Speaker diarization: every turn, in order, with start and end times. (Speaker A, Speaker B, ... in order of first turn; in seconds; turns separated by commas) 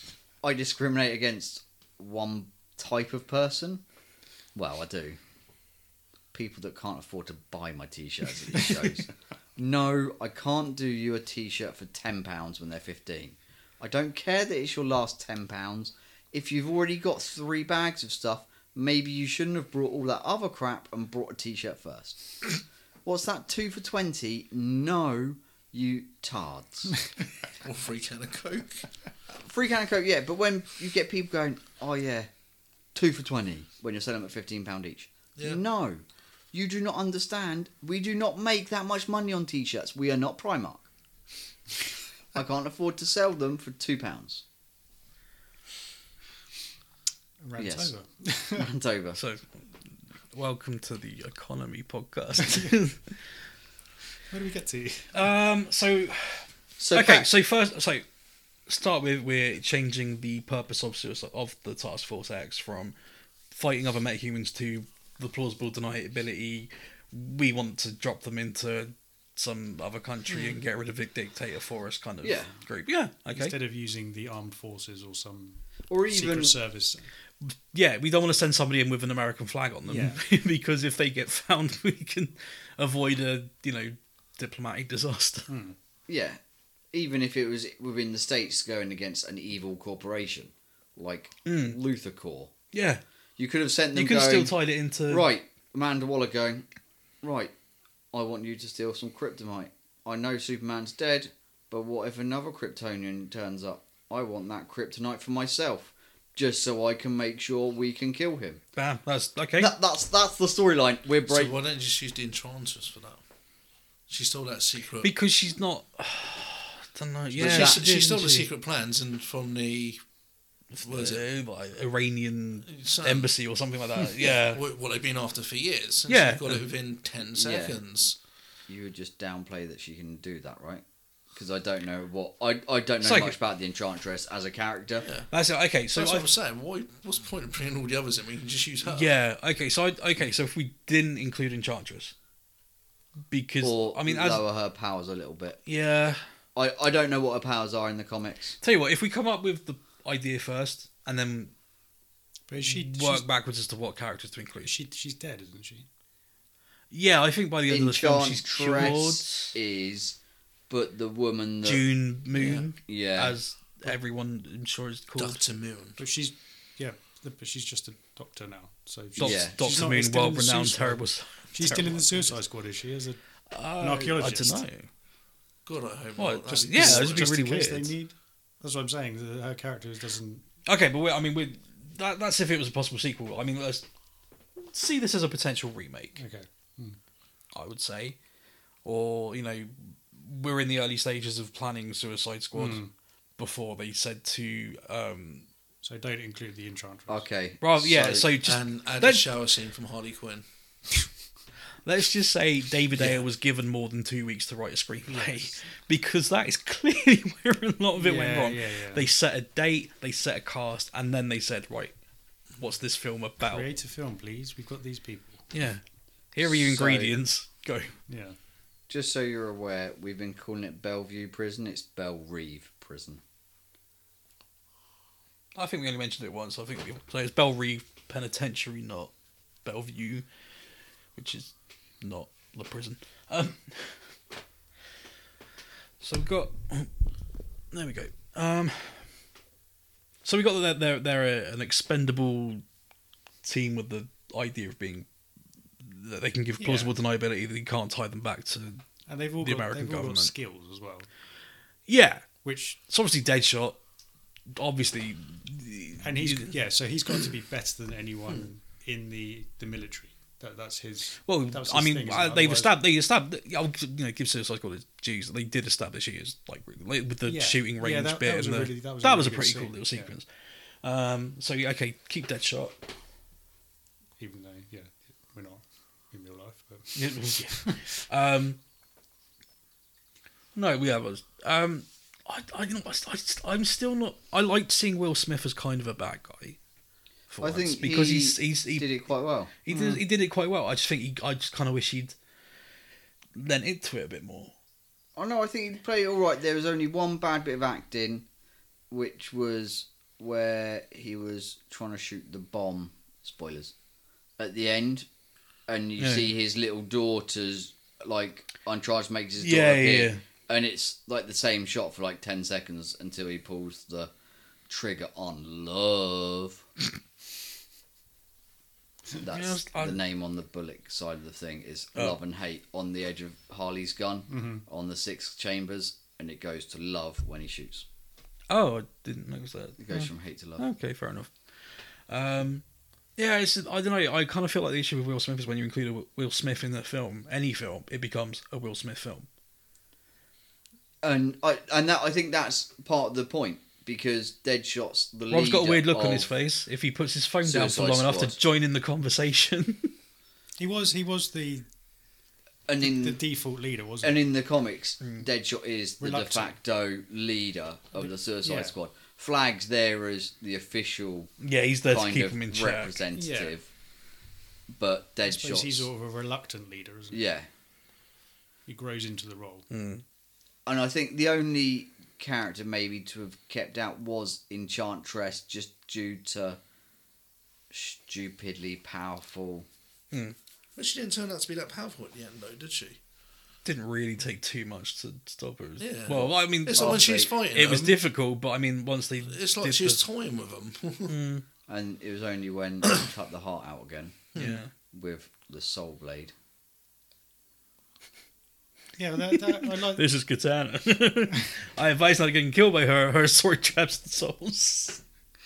Speaker A: 0.4-3.8, Speaker A: 4.5-5.2, Speaker A: 6.3-27.0, Speaker B: 27.6-28.9, Speaker A: 29.4-32.3, Speaker A: 32.9-40.9, Speaker A: 42.3-44.4, Speaker C: 47.4-48.7, Speaker A: 47.6-47.9, Speaker A: 48.5-49.2, Speaker D: 49.1-49.5, Speaker D: 50.3-53.2, Speaker C: 54.3-55.1, Speaker D: 55.1-58.1, Speaker A: 56.8-57.3, Speaker D: 58.7-63.0, Speaker D: 63.5-73.6, Speaker A: 72.2-72.5, Speaker C: 73.3-77.1, Speaker A: 75.9-76.5, Speaker D: 77.4-85.5, Speaker C: 79.9-80.2, Speaker C: 85.5-85.8, Speaker A: 86.1-86.4, Speaker A: 86.9-92.5, Speaker D: 91.5-91.8, Speaker D: 92.7-93.0, Speaker A: 93.4-96.7, Speaker D: 93.9-95.3, Speaker A: 97.2-97.5, Speaker A: 98.1-108.6, Speaker D: 108.8-109.7, Speaker A: 109.6-111.5, Speaker B: 111.3-113.2, Speaker B: 114.1-115.1, Speaker D: 115.0-118.5, Speaker A: 117.4-117.8, Speaker B: 117.4-120.0, Speaker D: 120.7-124.6, Speaker B: 120.8-121.2, Speaker B: 122.7-123.3, Speaker B: 124.0-128.2, Speaker D: 126.1-126.6, Speaker A: 127.4-127.8, Speaker A: 128.7-135.1, Speaker D: 133.0-133.4, Speaker B: 135.0-135.3, Speaker D: 135.3-136.3, Speaker B: 135.9-139.1, Speaker D: 138.8-142.1, Speaker D: 143.3-144.4, Speaker A: 143.6-145.6, Speaker D: 145.7-146.2, Speaker A: 146.6-148.6, Speaker D: 148.6-151.5, Speaker C: 152.5-153.2, Speaker D: 152.6-154.7, Speaker C: 154.6-155.9, Speaker D: 156.9-159.6, Speaker A: 157.7-160.2, Speaker A: 160.7-163.4, Speaker D: 161.6-165.4, Speaker B: 165.2-166.0, Speaker C: 166.0-173.2, Speaker D: 169.2-172.4, Speaker A: 169.2-169.7, Speaker D: 173.5-174.9, Speaker C: 173.8-174.6, Speaker B: 175.7-177.3, Speaker D: 176.2-177.9, Speaker C: 176.5-180.5, Speaker D: 180.7-183.9, Speaker D: 184.6-186.2, Speaker C: 186.2-187.0, Speaker D: 187.5-188.2, Speaker D: 188.8-192.9, Speaker C: 192.6-192.9, Speaker D: 193.4-195.5, Speaker C: 195.8-197.3, Speaker A: 197.1-198.3, Speaker D: 197.6-199.3, Speaker B: 198.4-200.4, Speaker D: 201.8-212.0, Speaker C: 205.1-205.7, Speaker C: 208.0-209.1, Speaker D: 212.6-213.7, Speaker C: 213.5-215.5, Speaker D: 215.5-215.8, Speaker D: 216.3-217.9, Speaker A: 216.4-217.2, Speaker C: 218.1-218.4, Speaker A: 218.9-223.2, Speaker D: 225.6-229.1, Speaker D: 229.6-230.3, Speaker D: 231.2-234.0, Speaker D: 236.0-236.9, Speaker D: 237.7-239.1, Speaker D: 240.2-242.6, Speaker D: 243.4-245.1, Speaker D: 245.8-248.9, Speaker C: 246.6-246.9, Speaker C: 249.1-251.1, Speaker D: 249.4-250.3, Speaker D: 251.9-253.8, Speaker C: 252.4-252.8, Speaker D: 254.5-256.6, Speaker C: 256.0-262.7, Speaker D: 261.3-270.3, Speaker C: 267.3-270.1, Speaker D: 270.8-272.8, Speaker C: 274.2-277.9, Speaker D: 276.9-278.6, Speaker D: 280.6-286.6, Speaker D: 287.3-288.9, Speaker A: 287.4-289.5, Speaker D: 289.6-292.2, Speaker C: 289.7-290.0, Speaker D: 293.4-294.5, Speaker A: 295.2-298.3, Speaker A: 298.9-303.7, Speaker A: 304.4-305.1, Speaker A: 305.7-314.1, Speaker D: 306.0-306.3, Speaker D: 309.4-310.2, Speaker A: 314.7-316.7, Speaker A: 319.2-327.9, Speaker D: 319.3-320.0, Speaker C: 324.3-324.6, Speaker D: 328.5-331.3, Speaker A: 329.8-330.6, Speaker D: 332.1-332.6, Speaker D: 333.2-339.3, Speaker A: 341.0-346.3, Speaker D: 345.3-349.9, Speaker A: 347.4-348.4, Speaker C: 350.6-351.7, Speaker A: 352.7-353.2, Speaker C: 352.8-354.2, Speaker A: 354.0-361.3, Speaker C: 356.0-356.6, Speaker C: 358.4-358.7, Speaker D: 361.4-363.0, Speaker A: 361.9-363.7, Speaker C: 363.1-363.6, Speaker A: 364.7-365.9, Speaker C: 365.2-367.2, Speaker A: 367.1-367.5, Speaker C: 368.7-369.7, Speaker D: 369.7-370.0, Speaker A: 370.7-376.6, Speaker A: 377.7-379.7, Speaker B: 380.8-383.0, Speaker D: 383.6-390.0, Speaker B: 385.8-388.0, Speaker A: 386.8-387.3, Speaker B: 389.3-391.1, Speaker D: 391.1-391.4, Speaker A: 391.7-394.3, Speaker B: 394.4-394.6, Speaker D: 394.4-394.7, Speaker A: 394.8-396.3, Speaker C: 399.0-400.1, Speaker D: 399.4-405.0